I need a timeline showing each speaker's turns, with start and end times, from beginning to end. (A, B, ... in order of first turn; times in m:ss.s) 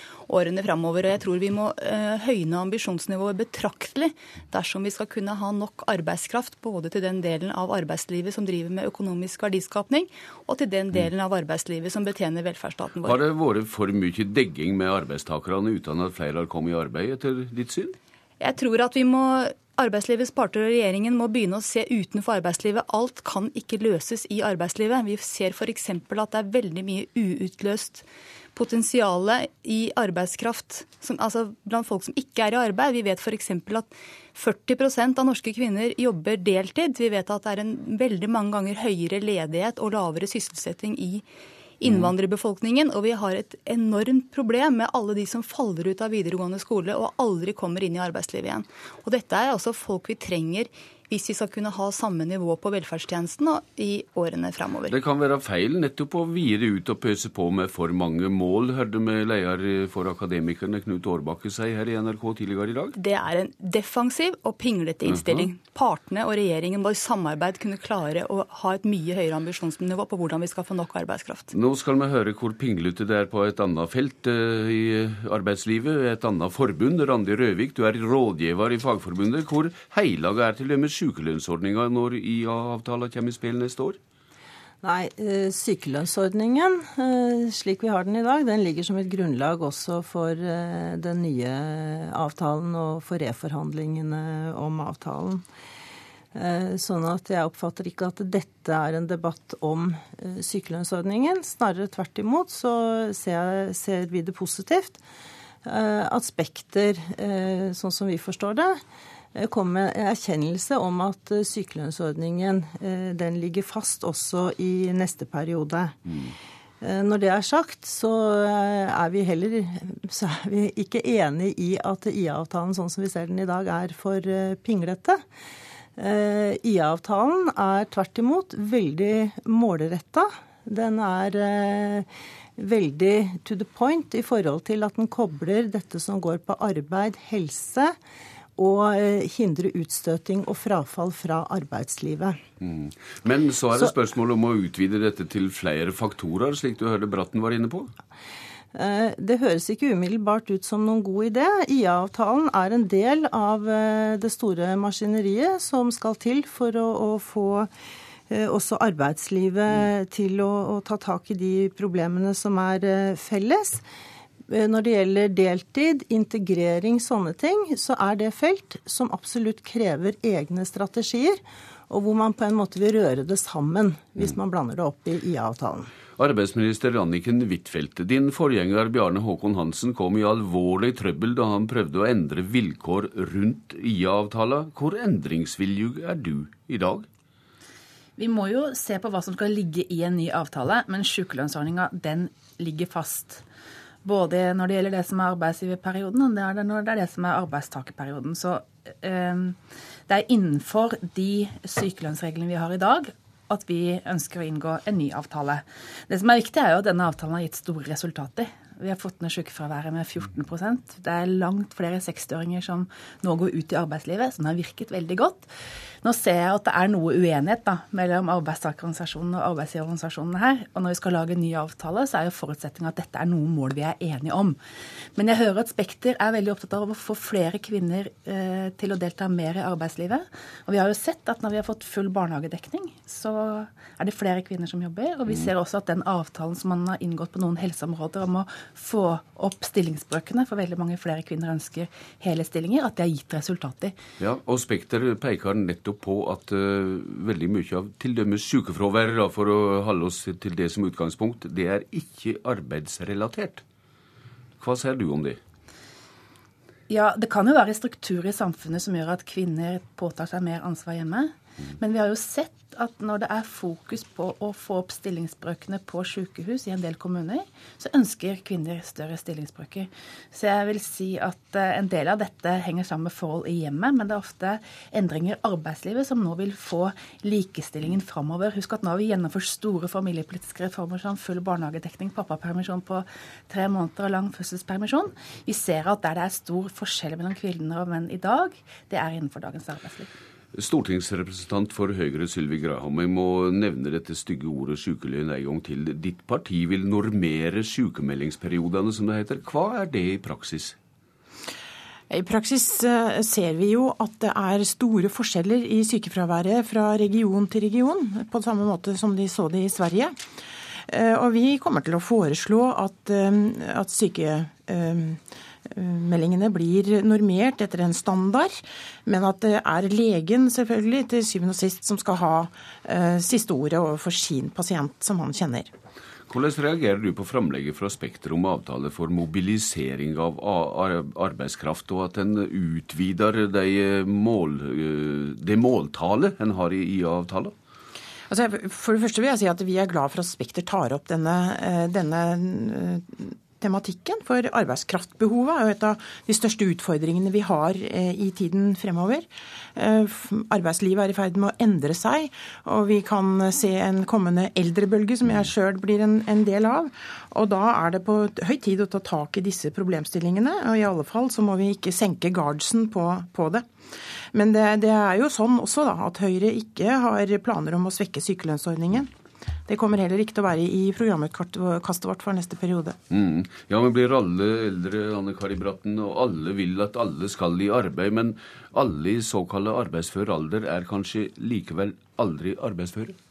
0:00.3-0:13.2 A
0:13.0-0:18.0 B
0:18.4-0:41.2 A
0:41.8-0:55.0 A
0:41.8-0:42.1 B
0:54.9-1:02.9 B
1:03.0-1:11.5 A
1:05.1-1:05.5 B
1:11.5-1:24.0 B
1:24.8-1:35.4 C
1:36.4-1:45.0 C
1:45.6-1:48.8 C
1:49.4-1:56.0 C
1:56.8-2:05.2 C
2:06.0-2:18.0 C
2:18.6-2:22.4 C
2:22.6-2:27.9 B
2:28.7-2:37.7 C
2:38.3-2:43.8 C
2:44.5-2:55.9 C
2:56.2-3:07.1 B
3:08.2-3:13.4 D
3:14.0-3:19.6 D
3:20.1-3:35.5 D
3:36.0-3:44.6 D
3:45.2-4:04.0 D
4:04.2-4:13.6 B
4:14.6-4:15.4 B
4:16.9-4:50.1 D
4:50.6-5:00.8 B
5:02.1-5:10.2 E
5:10.9-5:15.2 E
5:15.8-5:18.5 E
5:19.1-5:25.7 E
5:26.3-5:37.5 B
5:38.3-5:43.0 E
5:43.6-5:49.2 E
5:49.8-6:03.6 E
6:04.3-6:09.1 E
6:09.7-6:13.0 E
6:13.1-6:23.2 B